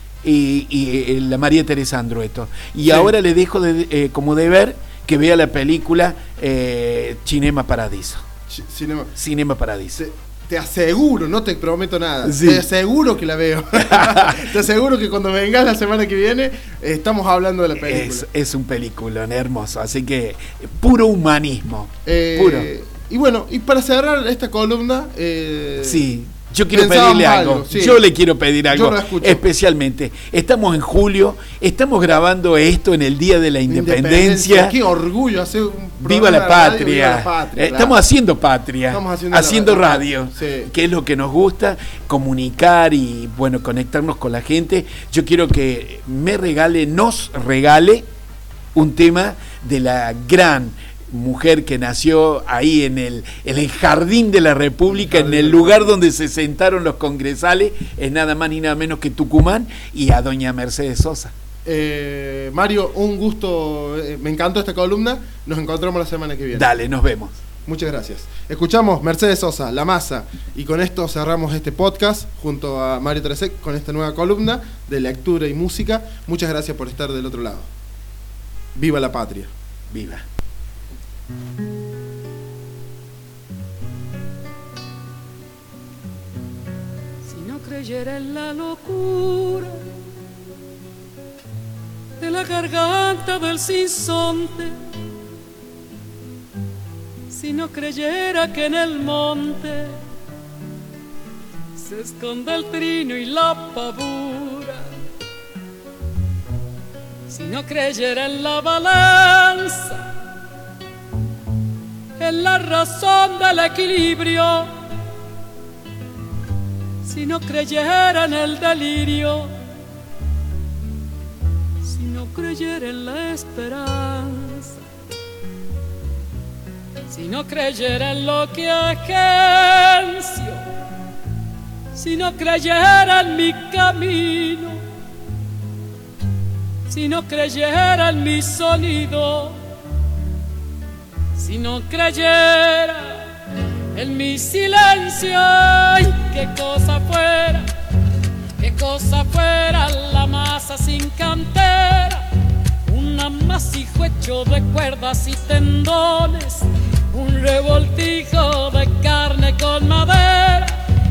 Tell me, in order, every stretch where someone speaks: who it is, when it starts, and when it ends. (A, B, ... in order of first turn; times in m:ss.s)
0:00.2-0:08.2 A
0:08.5-0:09.2 B
0:09.2-0:10.0 A
0:10.0-0:18.3 B
0:12.2-0:12.6 A
0:13.9-0:14.4 A
0:17.8-0:22.7 A
0:22.0-0:26.0 B
0:25.8-0:34.8 A
0:26.7-0:28.0 B
0:28.7-0:29.4 B
0:33.7-0:38.0 B
0:36.0-0:48.0 A
0:38.9-0:40.7 B
0:48.7-1:01.3 A
0:54.9-0:56.0 B
1:01.6-1:06.7 B
1:06.5-1:07.4 A
1:07.6-1:17.7 B
1:18.7-1:19.5 B
1:19.9-1:20.2 A
1:27.2-1:29.8 C
1:32.2-1:34.7 C
1:37.3-1:40.0 C
1:41.8-1:44.9 C
1:47.3-1:50.1 C
1:52.2-1:54.7 C
1:57.0-1:59.5 C
2:01.8-2:04.8 C
2:07.1-2:10.6 C
2:11.9-2:14.8 C
2:16.9-2:19.6 C
2:21.3-2:23.3 C
2:23.9-2:27.7 C
2:28.6-2:32.2 C
2:32.8-2:40.8 C